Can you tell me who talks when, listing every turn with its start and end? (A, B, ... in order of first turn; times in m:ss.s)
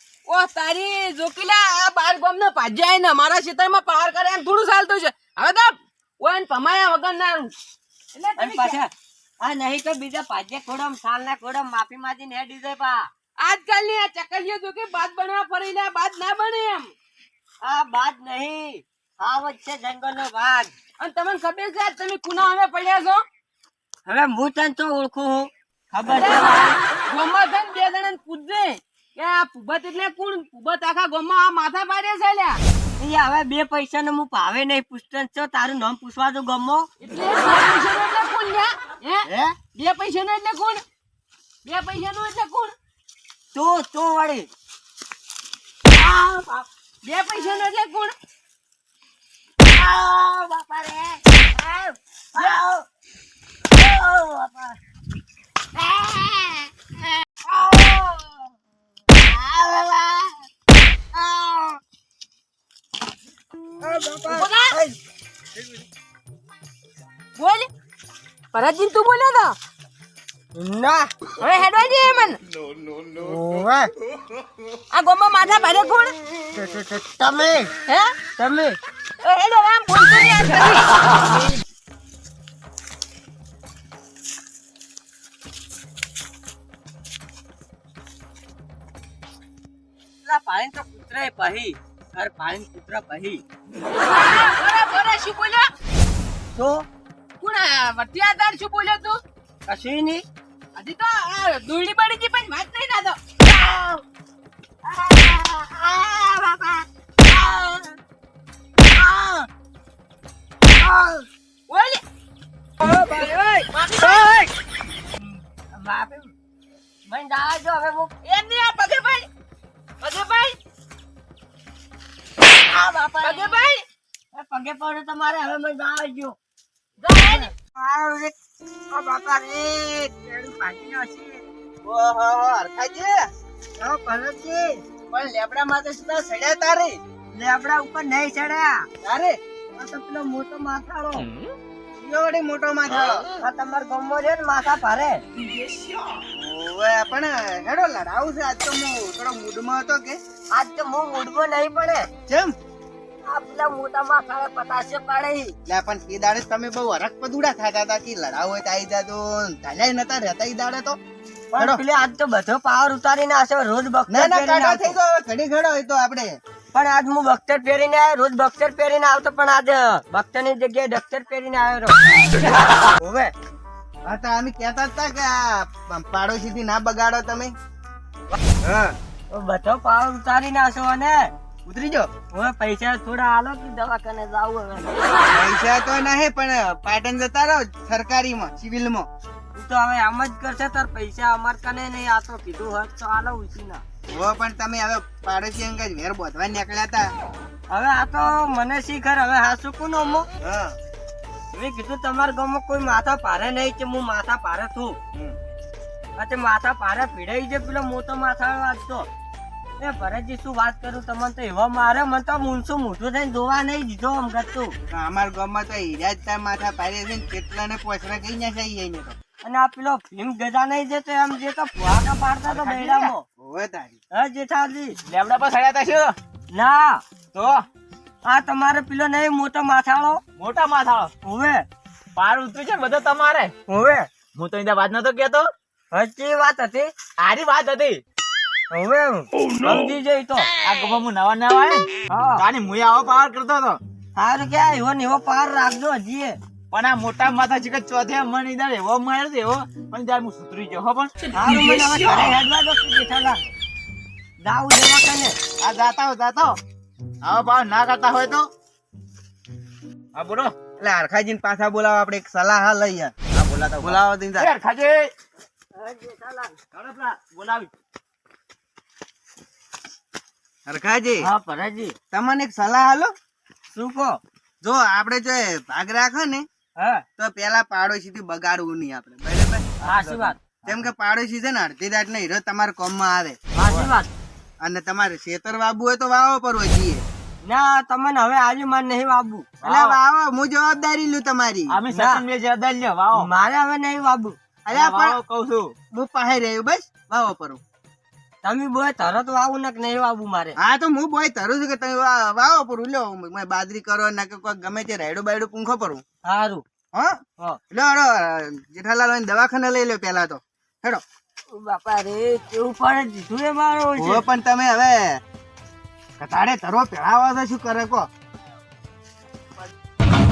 0:00.3-0:07.5 A
0:08.1-0:08.8 A
0:08.4-0:08.9 B
0:09.4-0:13.1 B
0:13.4-0:16.9 A
0:17.6-0:20.7 B
0:21.0-0:23.2 A
0:24.1-0:26.8 B
0:26.1-0:32.6 A
0:33.0-0:36.9 B
0:37.0-0:40.8 A
0:39.2-0:39.6 C
0:41.6-0:42.8 A
0:43.5-0:44.5 B
0:46.0-0:46.6 B
0:47.0-0:48.2 A
0:49.7-0:52.8 B
0:53.8-0:54.8 B
0:55.8-0:56.7 B
0:57.4-0:58.4 B
0:59.2-1:00.4 B
1:01.1-1:01.8 B
1:03.8-1:05.0 B
1:04.3-1:04.8 A
1:07.4-1:07.7 A
1:08.5-1:09.6 A
1:10.6-1:11.1 B
1:11.4-1:12.4 A
1:13.1-1:13.9 B
1:14.9-1:16.1 A
1:16.5-1:17.7 B
1:17.9-1:18.2 A
1:18.4-1:18.8 B
1:19.2-1:20.9 A
1:30.2-1:33.4 B
1:34.1-1:35.7 A
1:36.6-1:36.9 B
1:37.4-1:39.2 A
1:39.7-1:40.2 B
1:40.8-1:44.0 A
1:44.8-1:48.0 B
1:48.9-1:49.5 B
1:50.8-1:51.2 B
1:51.7-1:52.0 A
1:52.8-1:53.4 B
1:52.8-1:54.5 A
1:54.0-1:54.3 B
1:55.2-1:56.3 B
1:57.1-1:58.2 B
1:58.2-1:59.3 A
2:00.0-2:00.6 A
2:02.6-2:03.6 B
2:03.2-2:03.8 A
2:04.3-2:06.4 B
2:07.0-2:07.5 A
2:07.0-2:08.3 B
2:08.9-2:11.4 B
2:11.8-2:13.3 C
2:13.8-2:14.8 B
2:15.1-2:17.0 C
2:17.4-2:18.9 B
2:19.0-2:19.4 C
2:19.8-2:21.3 B
2:22.0-2:23.3 C
2:23.4-2:25.2 B
2:26.3-2:30.2 C
2:30.5-2:32.1 B
2:32.3-2:32.6 C
2:33.2-2:35.5 B
2:35.7-2:41.0 C
2:41.5-2:45.0 B
2:41.6-2:41.8 C
2:44.1-2:46.4 C
2:46.7-2:52.0 B
2:53.0-2:53.3 B
2:54.0-2:57.5 C
2:58.6-2:59.0 C
2:59.3-3:01.3 B
3:01.7-3:02.1 C
3:02.3-3:05.0 B
3:05.3-3:09.1 C
3:09.5-3:13.8 B
3:14.1-3:17.1 C
3:17.7-3:20.3 B
3:20.4-3:20.8 C
3:21.5-3:25.0 B
3:26.2-3:29.1 B
3:29.8-3:34.8 B
3:34.9-3:39.2 C
3:39.4-3:43.2 B
3:42.5-3:43.1 D
3:43.4-3:44.0 C
3:44.1-3:45.0 B
3:45.1-3:46.2 D
3:46.5-3:47.0 B
3:47.4-3:47.6 D
3:48.3-3:50.2 B
3:50.4-3:51.1 D
3:51.2-3:51.7 B
3:52.2-3:53.5 D
3:53.7-3:54.1 B
3:54.4-3:55.5 D
3:55.9-3:56.9 B
3:57.2-3:58.0 D
3:58.7-4:00.5 B
4:00.6-4:03.8 D
4:02.1-4:02.4 B
4:04.2-4:06.4 B
4:06.7-4:11.1 D
4:11.3-4:13.4 B
4:14.4-4:15.4 B
4:15.6-4:16.5 D
4:16.0-4:16.4 C
4:17.2-4:18.5 D
4:20.2-4:20.6 D
4:20.8-4:23.2 C
4:23.3-4:25.1 D
4:23.8-4:24.5 C
4:25.8-4:26.9 B
4:27.0-4:27.7 D
4:30.7-4:31.3 C
4:31.2-4:32.0 B
4:32.1-4:33.1 C
4:33.7-4:34.2 B
4:34.6-4:36.5 C
4:36.8-4:37.0 B
4:37.2-4:39.6 C
4:39.8-4:40.4 B
4:39.9-4:40.8 D
4:40.7-4:43.4 C
4:43.6-4:44.1 B
4:44.6-4:47.0 C
4:47.4-4:49.5 B
4:49.6-4:51.8 C
4:49.6-4:50.0 D
4:51.7-4:53.3 D
4:51.9-4:52.2 B
4:53.1-4:54.4 B
4:54.7-4:55.2 C
4:54.7-4:55.7 D
4:55.9-4:57.6 C
4:58.4-5:00.6 B
5:00.6-5:06.0 C
5:06.2-5:06.6 B
5:07.7-5:11.0 C
5:11.5-5:14.2 B
5:14.0-5:15.2 C
5:16.2-5:18.1 C